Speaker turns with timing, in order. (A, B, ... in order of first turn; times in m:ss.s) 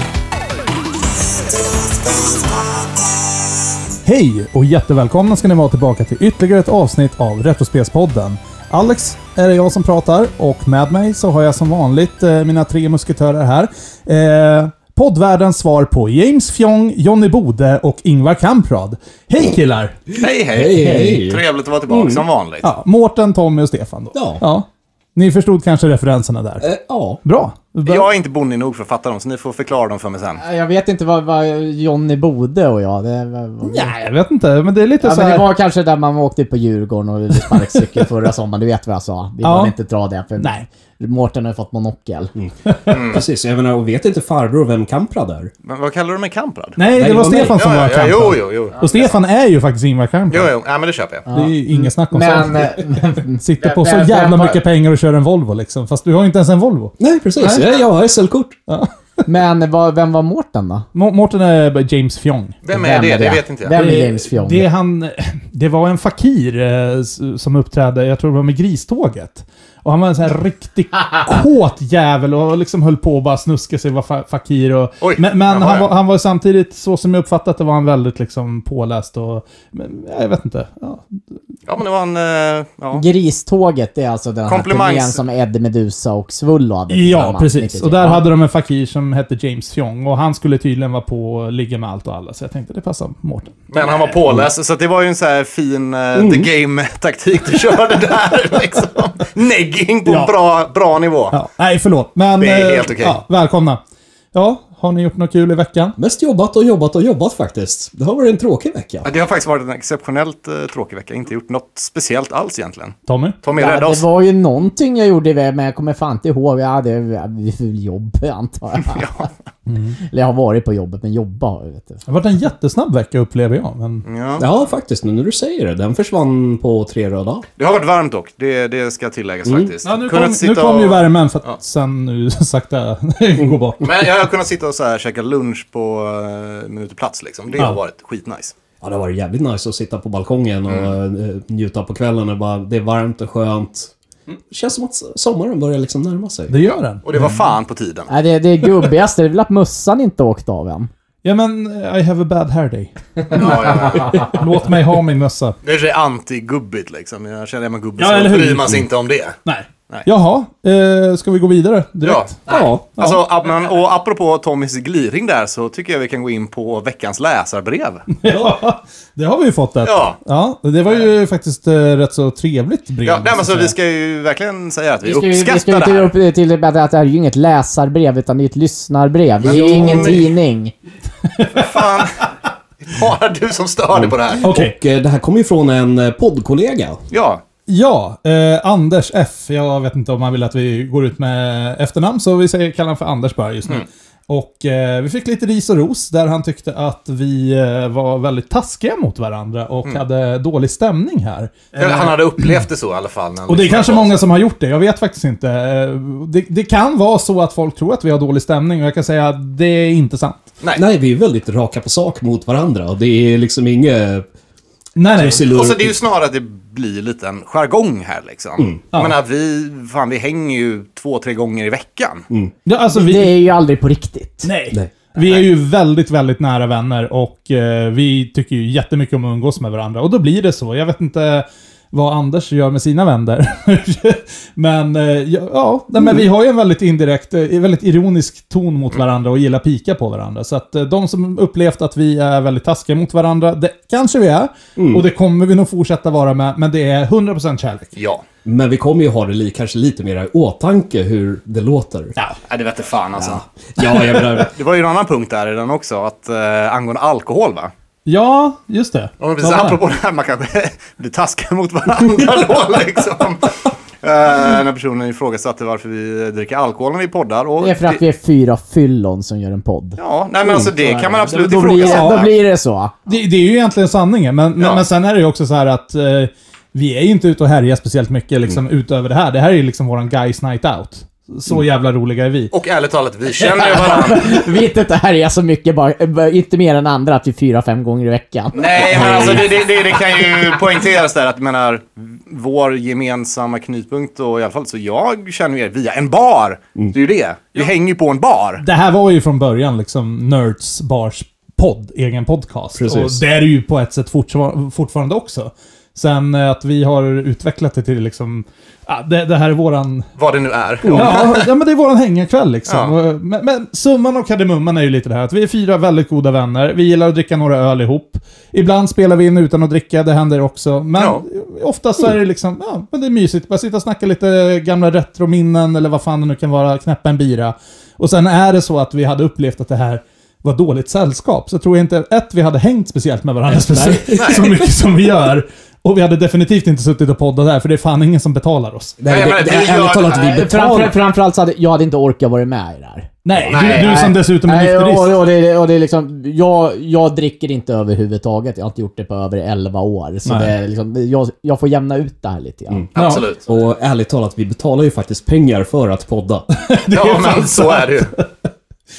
0:04.0-0:20.0 A
0:20.1-0:22.7 B
0:20.5-0:22.2 C
0:22.6-0:26.7 A
0:24.1-0:24.4 C
0:26.6-0:27.2 C
0:27.2-0:28.1 A
0:27.9-0:30.4 B
0:30.4-0:34.1 D
0:33.6-0:35.5 A
0:35.0-0:42.3 D
0:39.4-0:39.7 A
0:40.4-0:40.6 A
0:42.4-0:45.5 C
0:42.9-0:43.2 B
0:45.6-0:46.8 B
0:46.8-0:50.5 A
0:46.9-0:47.6 C
0:47.4-0:49.1 B
0:50.3-0:51.3 B
0:51.3-0:54.6 D
0:51.3-0:52.9 A
0:53.4-0:57.0 A
0:57.0-0:58.6 C
0:58.7-0:59.3 A
0:59.3-1:00.9 D
1:00.9-1:02.6 A
1:02.6-1:03.8 B
1:02.7-1:04.7 D
1:03.7-1:21.2 A
1:15.0-1:15.9 B
1:21.7-1:23.0 B
1:22.9-1:28.2 D
1:24.5-1:25.2 B
1:26.9-1:33.6 A
1:33.7-1:41.4 B
1:36.1-1:36.5 C
1:40.1-1:40.3 A
1:41.3-1:43.8 A
1:42.4-1:43.2 B
1:44.3-1:46.0 A
1:46.0-1:49.1 C
1:49.0-1:54.0 B
1:53.1-1:53.4 A
1:53.5-1:59.3 D
1:58.9-1:59.3 B
1:59.7-2:00.0 A
2:00.0-2:02.0 D
2:02.1-2:04.0 A
2:04.0-2:04.5 B
2:04.4-2:07.4 C
2:07.6-2:11.6 B
2:09.4-2:09.7 C
2:09.8-2:14.1 A
2:13.8-2:18.5 B
2:18.8-2:23.9 C
2:24.5-2:26.5 C
2:26.5-2:27.5 A
2:27.0-2:28.1 B
2:28.1-2:30.9 D
2:31.2-2:33.7 A
2:33.3-2:34.3 B
2:33.7-2:34.3 D
2:34.2-2:35.6 A
2:35.6-2:39.4 B
2:38.0-2:38.9 A
2:39.4-2:42.4 A
2:42.0-2:48.2 B
2:42.5-2:42.8 C
2:43.0-2:43.2 A
2:48.2-2:53.8 A
2:49.8-2:50.2 B
2:53.0-2:56.1 B
2:55.0-3:00.7 D
2:59.4-3:00.2 B
2:59.5-3:00.1 C
3:01.2-3:02.1 A
3:01.6-3:02.3 B
3:02.8-3:04.5 B
3:03.9-3:07.0 C
3:04.4-3:04.7 A
3:07.1-3:07.4 B
3:07.7-3:22.6 A
3:21.8-3:24.2 B
3:23.5-3:30.5 A
3:30.7-3:34.2 C
3:35.0-3:35.4 A
3:35.1-3:36.0 C
3:35.4-3:42.2 B
3:42.7-3:43.3 A
3:42.9-3:44.5 D
3:44.4-4:07.9 A
3:45.2-3:45.5 B
3:56.0-3:56.2 C
4:04.8-4:05.0 C
4:08.0-4:08.2 B
4:08.4-4:12.2 C
4:12.5-4:13.4 B
4:13.2-4:14.5 C
4:13.8-4:14.2 A
4:14.4-4:17.7 B
4:18.1-4:19.8 A
4:19.2-4:28.0 B
4:27.6-4:33.0 D
4:30.0-4:32.3 B
4:31.8-4:32.2 A
4:33.1-4:42.5 A
4:34.6-4:34.8 B
4:42.5-4:44.4 B
4:43.4-4:50.4 D
4:48.5-4:58.6 B
4:58.6-5:10.1 A
5:02.8-5:03.2 C
5:10.2-5:11.5 B
5:10.8-5:39.0 A
5:12.7-5:12.9 B
5:21.0-5:21.2 B
5:33.6-5:34.7 C
5:39.0-5:41.0 C
5:39.1-5:40.2 B
5:39.8-5:52.9 D
5:43.2-5:45.2 A
5:43.5-5:44.1 B
5:50.2-5:50.5 A
5:52.9-5:53.4 B
5:53.0-5:53.2 A
5:53.4-5:56.5 C
5:56.5-5:58.5 A
5:56.9-5:58.1 B